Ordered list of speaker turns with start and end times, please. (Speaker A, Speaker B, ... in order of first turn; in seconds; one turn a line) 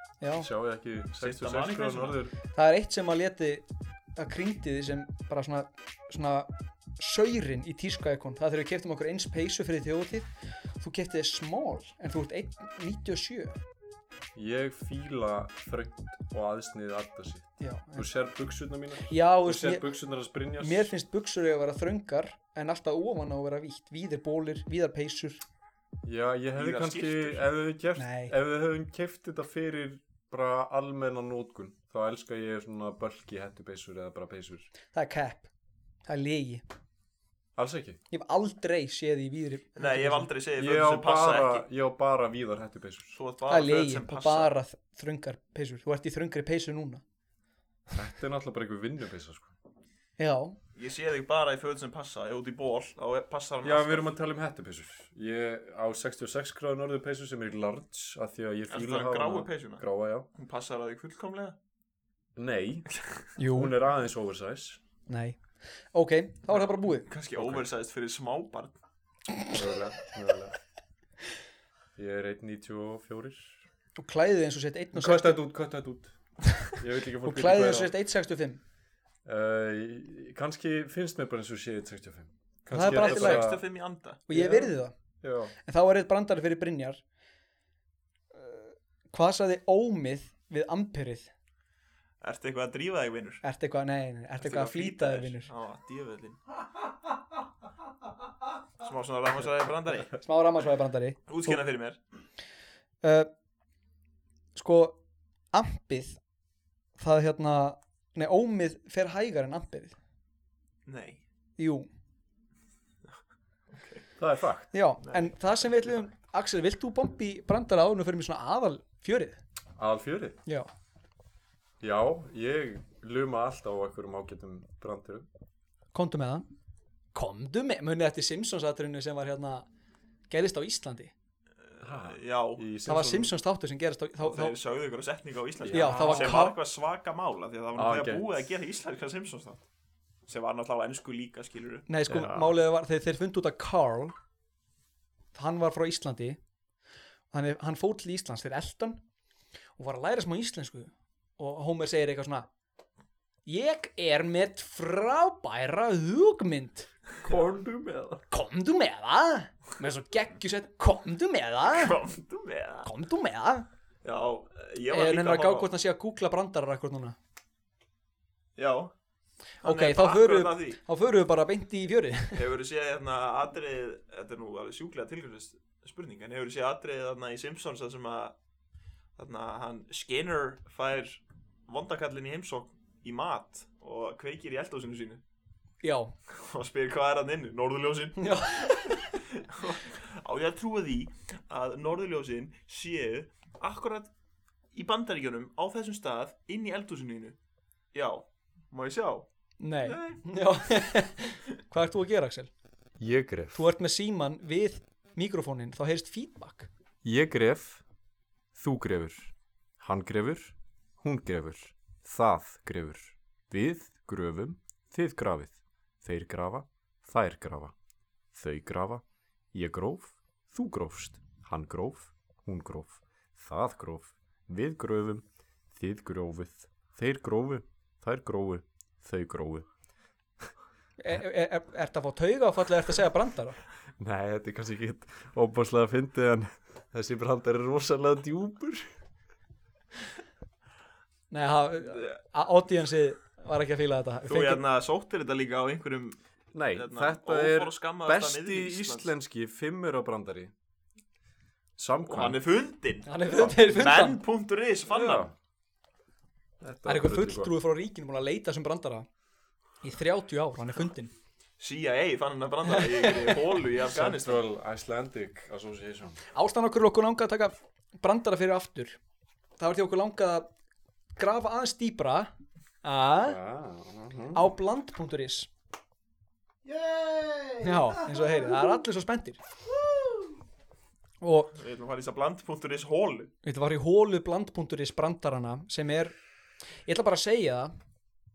Speaker A: 0.2-0.5
Speaker B: 0.3-2.4
Speaker C: 1.1-2.2
Speaker A: 2.5-13.6
Speaker B: 14.3-20.9
Speaker A: 17.6-18.0
Speaker A: 19.1-19.9
Speaker A: 20.6-25.4
Speaker B: 26.0-34.7
Speaker C: 26.6-27.4
Speaker A: 28.0-28.3
Speaker A: 34.9-35.5
Speaker A: 36.1-36.6
Speaker B: 37.5-38.0
Speaker A: 38.1-40.3
Speaker C: 39.8-41.6
Speaker B: 40.6-43.2
Speaker C: 43.1-44.5
Speaker A: 43.5-47.0
Speaker B: 47.9-49.5
Speaker A: 50.2-50.6
Speaker C: 50.7-54.1
Speaker B: 53.6-60.3
Speaker C: 58.7-59.8
Speaker C: 60.3-61.6
Speaker B: 62.4-64.8
Speaker A: 63.4-63.7
Speaker A: 65.1-65.4
Speaker A: 65.9-67.1
Speaker C: 66.6-68.8
Speaker B: 67.3-67.6
Speaker B: 69.5-70.5
Speaker B: 72.0-73.7
Speaker A: 74.0-75.4
Speaker B: 74.9-76.2
Speaker B: 76.7-77.9
Speaker A: 77.2-78.6
Speaker B: 79.2-83.7
Speaker A: 82.7-83.5
Speaker C: 82.7-84.2
Speaker A: 84.3-84.9
Speaker B: 84.3-85.5
Speaker A: 85.6-87.0
Speaker A: 88.3-91.3
Speaker C: 92.2-93.4
Speaker A: 93.4-95.5
Speaker C: 94.4-96.4
Speaker C: 98.8-100.1
Speaker A: 100.2-101.6
Speaker C: 101.3-102.0
Speaker A: 103.0-103.3
Speaker A: 104.5-105.0
Speaker A: 105.5-106.2
Speaker A: 107.0-109.9
Speaker C: 110.8-111.2
Speaker A: 111.6-111.9
Speaker C: 113.7-114.0
Speaker B: 114.2-114.7
Speaker A: 114.7-119.4
Speaker B: 119.8-120.4
Speaker B: 121.8-125.2
Speaker A: 125.9-126.5
Speaker A: 127.1-129.7
Speaker A: 130.3-131.1
Speaker C: 131.7-132.6
Speaker B: 131.8-133.3
Speaker A: 132.8-134.6
Speaker C: 134.2-139.6
Speaker B: 135.6-136.4
Speaker A: 135.7-136.6
Speaker B: 137.8-138.3
Speaker C: 140.3-141.9
Speaker A: 141.9-144.1
Speaker B: 142.1-142.5
Speaker A: 145.3-146.4
Speaker A: 147.3-149.0
Speaker A: 149.8-152.5
Speaker A: 153.4-156.9
Speaker B: 157.2-158.2
Speaker A: 158.3-162.0
Speaker C: 161.7-162.9
Speaker A: 162.8-163.7
Speaker C: 164.0-165.7
Speaker A: 164.9-167.2
Speaker C: 168.6-168.9
Speaker C: 169.6-170.8
Speaker A: 169.6-172.4
Speaker C: 172.3-178.3
Speaker C: 179.2-185.2
Speaker A: 185.8-186.1
Speaker C: 186.3-188.3
Speaker A: 188.2-189.1
Speaker C: 188.9-194.1
Speaker C: 194.7-197.3
Speaker C: 197.9-199.2
Speaker A: 199.6-202.5
Speaker C: 199.8-200.2
Speaker B: 203.0-203.6
Speaker A: 203.5-206.7
Speaker B: 207.0-207.8
Speaker B: 208.5-217.7
Speaker B: 218.3-229.7
Speaker A: 231.0-233.6
Speaker B: 234.0-238.8
Speaker A: 241.3-244.6
Speaker C: 244.2-246.2
Speaker B: 246.5-250.5
Speaker C: 246.7-249.1
Speaker B: 251.8-252.4
Speaker C: 252.1-255.3
Speaker A: 253.0-254.2
Speaker B: 254.9-255.3
Speaker B: 256.6-257.5
Speaker A: 256.8-259.1
Speaker A: 259.8-261.1
Speaker C: 261.6-264.4
Speaker A: 262.6-263.6
Speaker B: 263.9-266.2
Speaker A: 266.3-269.0
Speaker A: 269.6-270.5
Speaker A: 271.1-272.3
Speaker A: 272.8-273.4
Speaker B: 273.2-274.5
Speaker A: 274.3-275.5
Speaker C: 276.6-277.9
Speaker A: 277.6-279.4
Speaker C: 279.9-280.2
Speaker A: 281.2-281.6
Speaker C: 281.6-283.3
Speaker A: 283.4-286.1
Speaker A: 286.9-287.7